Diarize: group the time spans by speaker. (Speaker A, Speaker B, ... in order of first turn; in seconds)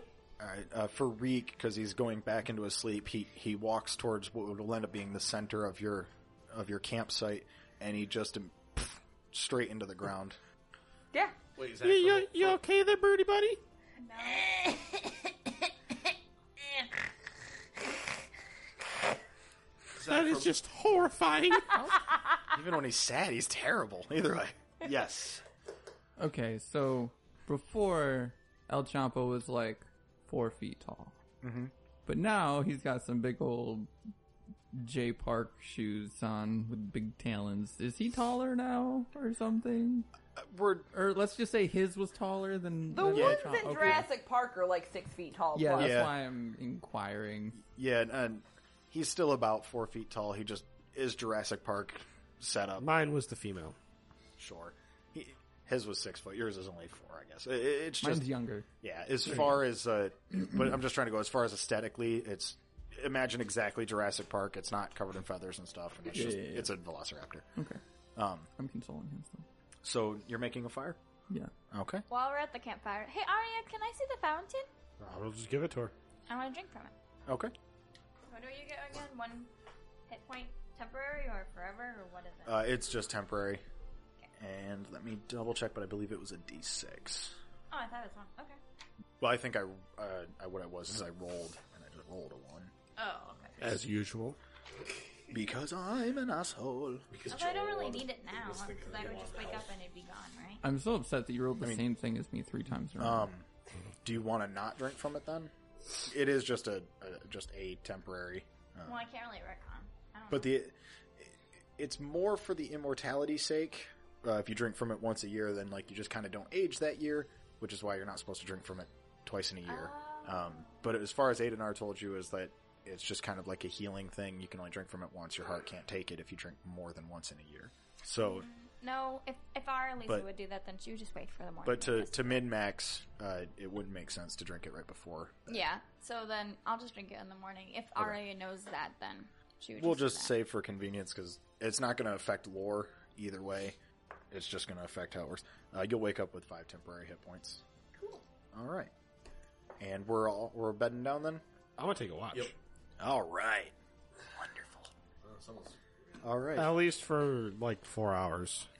Speaker A: 0.4-10.4, 22.5-25.4, 31.4-31.7, 40.4-40.9, 43.1-43.9, 45.8-46.1, 47.6-52.9, 54.4-58.3, 58.8-67.5, 68.2-68.5, 69.8-71.0, 71.7-72.0, 77.3-77.5, 82.5-83.6, 84.4-87.4, 89.2-92.7, 95.3-97.0, 103.0-103.5, 104.0-105.5, 106.0-109.1, 110.3-128.5, 131.6-135.6, 139.8-143.8, 144.3-147.6, 148.5-148.9, 149.8-151.4, 153.0-153.7, 154.3-154.9, 156.2-156.8
Speaker B: 11.6-12.6, 20.0-20.6, 97.1-99.7, 155.2-156.2
Speaker C: 11.8-13.6, 20.1-21.8
Speaker D: 14.0-14.8, 72.1-74.7, 76.3-76.9, 78.3-79.5, 80.1-82.7, 87.7-88.6, 93.0-93.6, 97.3-100.6, 108.8-110.5, 119.7-120.8, 128.2-132.4, 135.5-140.3
Speaker E: 26.2-31.1, 32.1-33.9, 34.7-40.1, 40.9-44.1, 45.5-47.6, 58.0-58.7, 66.1-66.7, 67.5-67.8, 68.6-69.5, 100.6-103.3
Speaker F: 42.9-46.1
Speaker G: 52.8-53.8, 75.0-75.9, 93.6-94.4, 151.8-152.5, 156.6-158.7